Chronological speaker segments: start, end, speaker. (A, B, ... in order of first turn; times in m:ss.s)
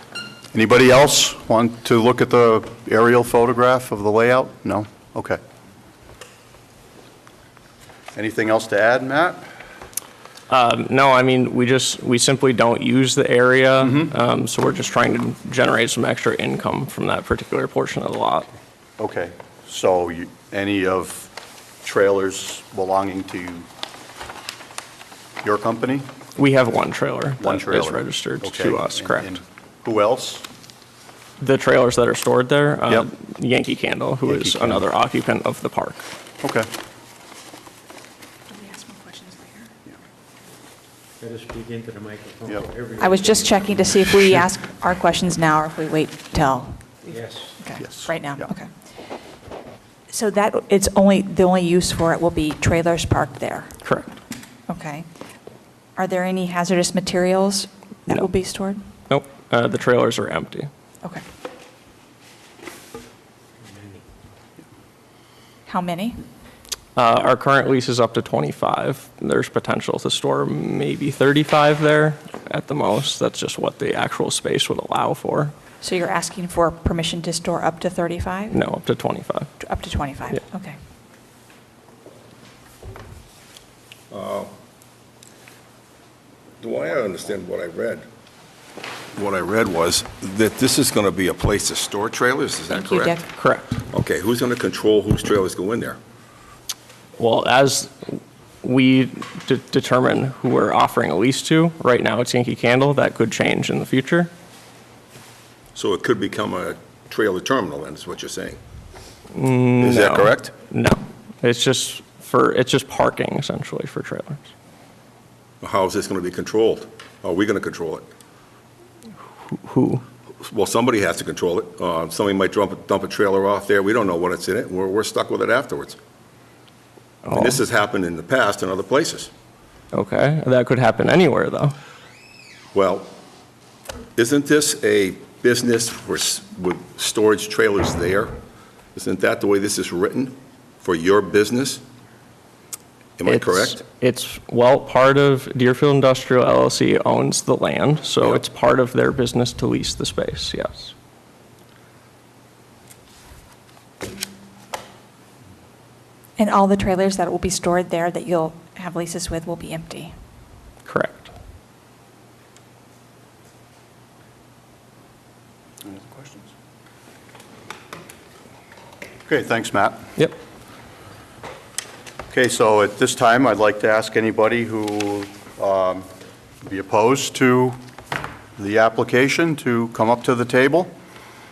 0:00.5-0:05.4 A
0:08.1-0:09.4 A
0:10.5-0:18.5 B
0:13.8-0:14.1 A
0:19.0-0:21.3 A
0:21.8-0:23.7 A
0:25.4-0:26.1 A
0:26.4-0:29.4 B
0:27.4-0:30.4 A
0:31.4-0:36.0 B
0:34.2-0:34.8 A
0:36.4-0:36.7 A
0:38.5-0:39.7 C
0:41.2-0:43.7 D
0:43.0-0:48.7 C
0:47.1-0:47.6 D
0:47.8-0:48.5 A
0:50.1-0:53.8 C
0:53.8-0:54.1 B
0:54.7-0:55.1 C
0:56.0-0:58.8 C
0:59.1-1:00.7 B
1:05.7-1:06.2 C
1:07.0-1:15.5 B
1:15.8-1:18.6 C
1:18.5-1:19.5 B
1:19.6-1:20.8 C
1:24.1-1:24.5 E
1:26.6-1:28.1 E
1:29.2-1:33.2 E
1:32.7-1:33.3 C
1:33.3-1:33.8 B
1:33.9-1:36.0 E
1:37.2-1:44.3 B
1:45.8-1:48.6 E
1:49.3-1:54.5 B
1:49.8-1:50.5 E
1:55.6-1:58.1 E
1:59.5-2:00.0 B
2:00.4-2:06.0 E
2:07.2-2:07.6 B
2:07.3-2:09.3 E
2:09.9-2:11.8 B
2:12.7-2:13.1 E
2:14.2-2:18.4 E
2:19.0-2:21.8 E
2:23.2-2:23.8 E
2:23.2-2:30.9 B
2:36.4-2:40.1 C
2:40.9-2:41.3 B
2:45.8-2:46.5 A
2:49.3-2:50.0 A
2:52.3-2:56.1 A
2:56.6-2:57.8 A
2:58.6-3:00.9 A